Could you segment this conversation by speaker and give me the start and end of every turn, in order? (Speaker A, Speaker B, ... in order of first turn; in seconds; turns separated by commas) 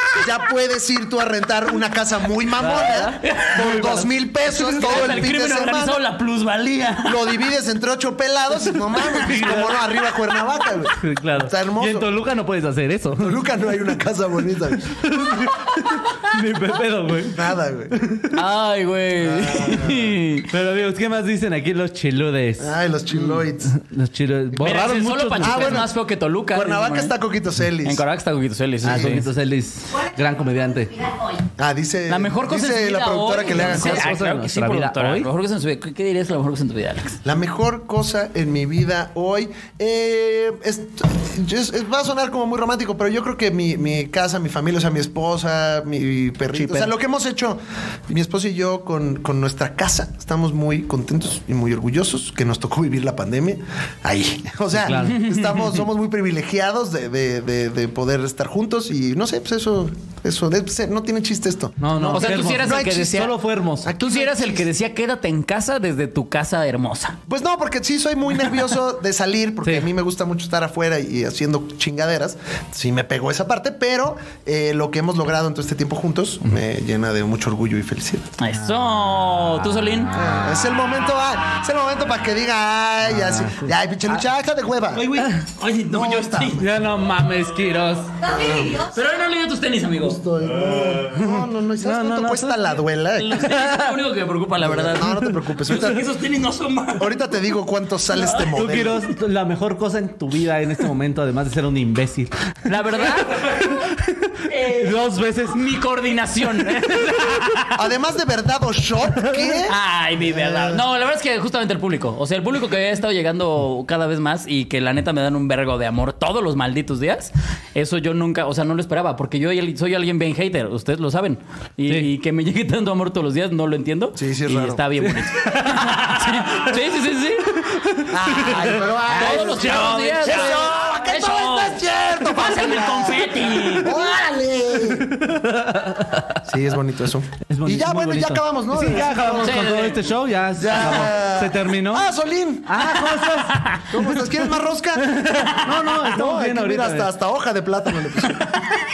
Speaker A: 0.1-6.0, Speaker B: 2.6-4.1, Speaker C: 2.9-7.3, Speaker B: 4.7-5.2, Speaker A: 7.0-12.1, Speaker B: 9.1-9.9, Speaker B: 10.9-13.4, Speaker A: 13.2-15.0, Speaker B: 14.9-18.3, Speaker A: 17.2-18.2, Speaker C: 18.3-20.5, Speaker A: 19.2-20.1, Speaker B: 20.5-22.8, Speaker A: 22.6-23.8, Speaker B: 23.6-25.9, Speaker A: 24.5-25.9, Speaker C: 24.6-27.1, Speaker A: 26.5-28.0, Speaker C: 27.8-29.3, Speaker A: 28.8-29.2, Speaker B: 28.8-31.1, Speaker A: 31.6-34.1, Speaker C: 32.1-37.2, Speaker B: 33.6-35.3, Speaker A: 37.2-64.6, Speaker B: 54.7-55.2, Speaker C: 55.0-55.8, Speaker B: 61.8-63.9, Speaker C: 62.0-63.3, Speaker C: 63.8-67.2, Speaker A: 67.3-78.3, Speaker B: 69.6-69.9, Speaker C: 78.4-80.2, Speaker A: 80.1-85.2, Speaker B: 83.0-84.2, Speaker C: 85.0-86.7, Speaker B: 85.1-85.5, Speaker A: 85.9-86.7, Speaker B: 86.5-88.3, Speaker A: 88.2-88.9, Speaker C: 88.8-90.2, Speaker A: 90.0-93.5, Speaker B: 91.1-92.8, Speaker C: 93.1-97.2, Speaker B: 93.4-94.0, Speaker A: 94.6-96.0, Speaker A: 97.0-99.0, Speaker C: 98.2-98.6, Speaker B: 98.5-105.6, Speaker C: 102.7-103.8, Speaker C: 104.5-107.8, Speaker A: 107.7-110.8, Speaker B: 109.2-109.6, Speaker C: 109.7-127.7, Speaker A: 124.2-124.8, Speaker B: 125.5-126.3, Speaker B: 127.6-130.5, Speaker A: 128.1-135.2, Speaker C: 129.1-134.0, Speaker B: 134.9-136.4, Speaker A: 136.4-139.9, Speaker B: 137.4-142.1, Speaker C: 139.4-140.0, Speaker A: 140.6-142.9, Speaker B: 142.6-144.3, Speaker C: 143.4-143.8, Speaker A: 143.9-148.8, Speaker B: 145.0-147.1